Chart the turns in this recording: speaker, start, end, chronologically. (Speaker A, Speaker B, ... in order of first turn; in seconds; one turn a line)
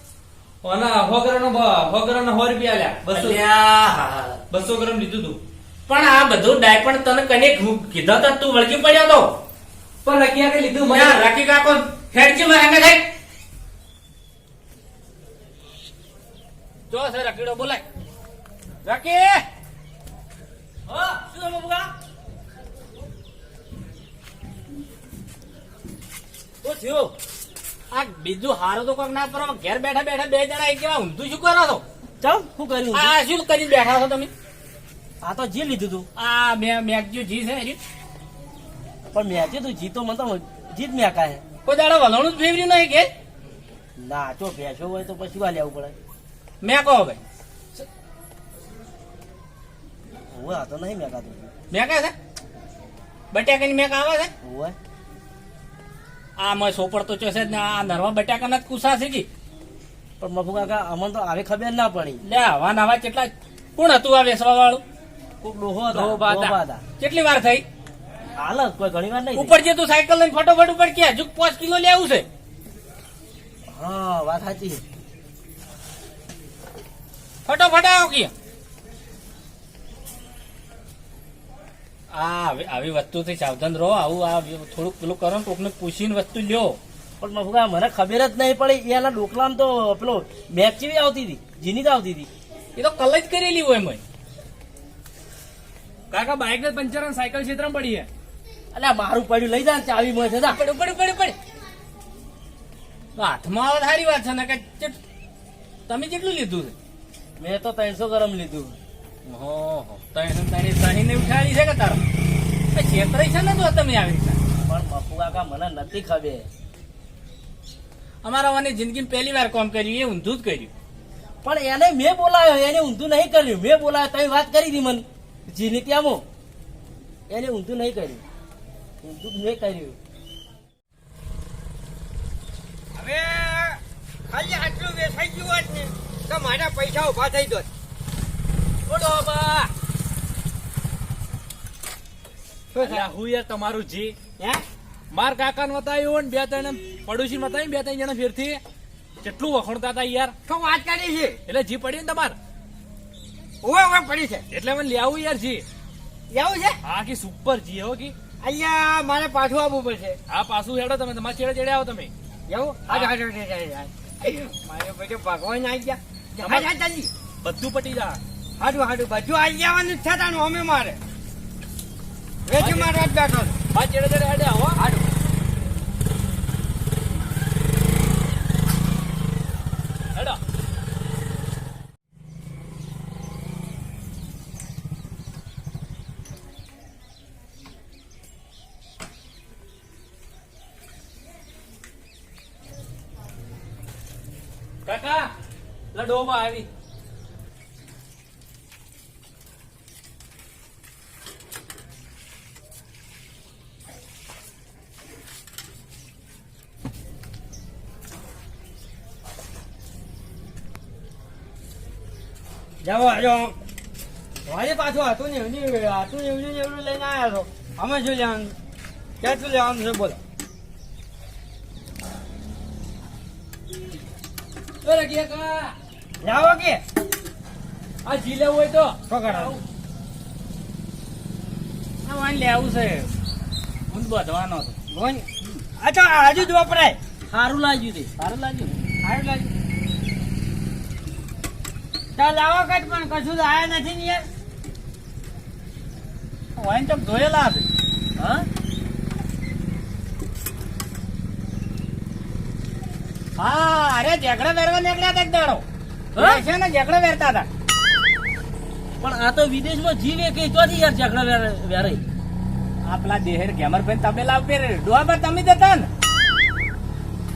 Speaker A: 0.6-3.4
Speaker B: 3.1-4.4
Speaker A: 4.5-5.4
Speaker B: 5.9-9.3
Speaker A: 10.0-11.2
Speaker B: 10.9-13.1
Speaker B: 16.9-17.8
Speaker B: 18.8-19.4
Speaker C: 20.9-21.9
Speaker C: 26.6-27.1
Speaker B: 27.9-31.8
Speaker C: 32.2-33.1
Speaker B: 32.9-34.3
Speaker C: 35.2-36.1
Speaker B: 36.1-37.8
Speaker C: 39.1-41.4
Speaker B: 41.6-43.1
Speaker C: 44.0-45.9
Speaker B: 46.6-47.2
Speaker C: 50.3-51.5
Speaker B: 51.7-52.1
Speaker B: 53.3-54.3
Speaker C: 54.4-54.7
Speaker B: 56.4-59.3
Speaker C: 60.2-62.2
Speaker B: 62.2-64.8
Speaker C: 65.4-66.8
Speaker B: 65.9-67.6
Speaker C: 68.4-69.6
Speaker B: 69.3-72.2
Speaker C: 73.7-74.8
Speaker B: 77.5-78.3
Speaker B: 82.1-86.8
Speaker C: 87.2-92.3
Speaker B: 92.8-94.0
Speaker D: 96.1-98.1
Speaker C: 98.7-100.6
Speaker B: 100.5-101.3
Speaker B: 103.2-105.0
Speaker B: 105.9-106.7
Speaker C: 107.4-108.8
Speaker B: 109.2-112.0
Speaker B: 112.7-114.4
Speaker C: 114.7-116.5
Speaker B: 118.2-120.7
Speaker C: 121.4-126.2
Speaker C: 127.3-128.2
Speaker C: 129.0-130.0
Speaker E: 132.9-137.7
Speaker D: 138.9-139.7
Speaker E: 142.7-143.1
Speaker D: 142.8-144.1
Speaker E: 144.4-144.6
Speaker D: 145.1-148.6
Speaker D: 149.2-150.3
Speaker E: 150.4-151.4
Speaker D: 151.5-152.3
Speaker E: 153.6-154.4
Speaker D: 154.5-155.6
Speaker E: 156.3-156.8
Speaker D: 156.8-158.1
Speaker E: 158.4-160.2
Speaker D: 160.3-162.1
Speaker E: 162.5-167.1
Speaker D: 167.4-168.2
Speaker E: 168.6-171.0
Speaker E: 172.5-173.6
Speaker D: 172.6-172.9
Speaker D: 173.7-174.8
Speaker E: 174.8-175.0
Speaker D: 194.8-195.3
Speaker D: 195.9-196.7
Speaker E: 212.8-213.5
Speaker E: 214.5-218.5
Speaker E: 219.2-220.2
Speaker D: 224.8-225.7
Speaker E: 226.2-226.8
Speaker D: 228.1-229.5
Speaker E: 229.1-229.6
Speaker B: 232.0-233.1
Speaker B: 233.9-234.8
Speaker E: 234.9-235.3
Speaker E: 235.8-237.0
Speaker C: 237.3-238.1
Speaker B: 238.2-238.7
Speaker E: 239.0-239.5
Speaker E: 242.2-244.2
Speaker B: 246.6-247.7
Speaker C: 248.2-248.4
Speaker B: 253.4-255.6
Speaker C: 256.1-256.4
Speaker B: 256.2-257.5
Speaker C: 259.0-262.0
Speaker B: 262.9-265.9